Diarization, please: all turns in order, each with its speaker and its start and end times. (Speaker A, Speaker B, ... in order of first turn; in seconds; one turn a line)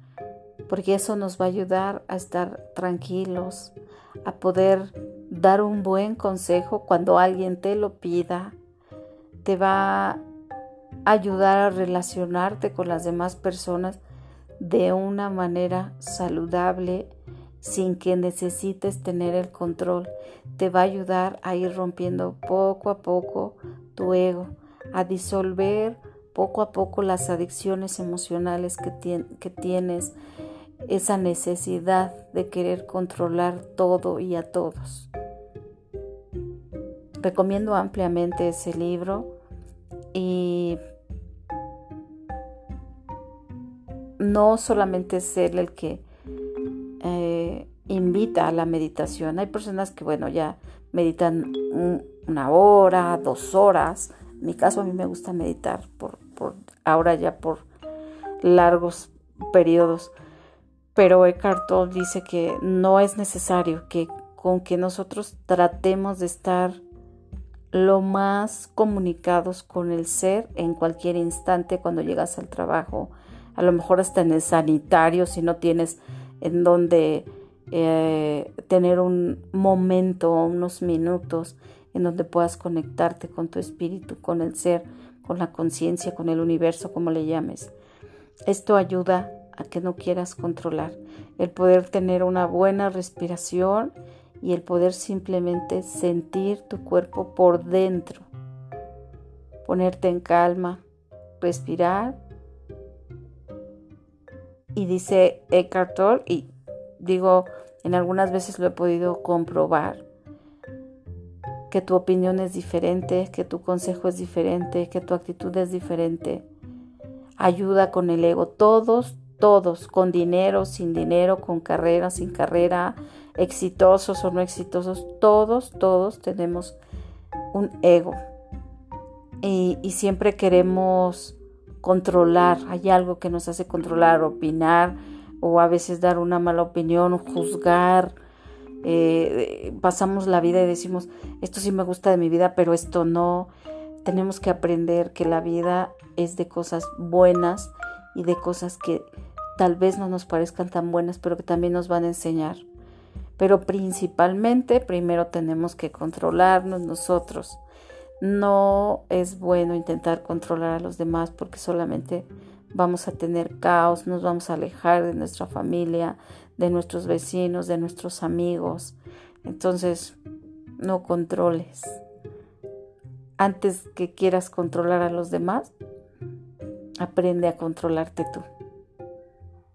Speaker A: 0.7-8.6
Speaker A: 9.4-10.2
Speaker A: 11.1-14.0
Speaker A: 14.6-17.1
Speaker A: 17.6-30.2
Speaker A: 30.9-35.1
Speaker A: 37.2-39.3
Speaker A: 40.1-40.8
Speaker A: 44.2-46.0
Speaker A: 47.0-57.6
Speaker A: 58.4-60.1
Speaker A: 61.0-66.8
Speaker A: 67.7-87.7
Speaker A: 88.5-98.3
Speaker A: 99.7-100.8
Speaker A: 101.4-102.2
Speaker A: 104.8-110.0
Speaker A: 111.7-116.5
Speaker A: 117.4-126.8
Speaker A: 127.5-128.2
Speaker A: 129.4-138.2
Speaker A: 138.8-143.5
Speaker A: 144.0-149.1
Speaker A: 149.6-152.6
Speaker A: 153.4-157.6
Speaker A: 158.2-170.2
Speaker A: 170.8-172.0
Speaker A: 173.4-175.7
Speaker A: 177.0-178.4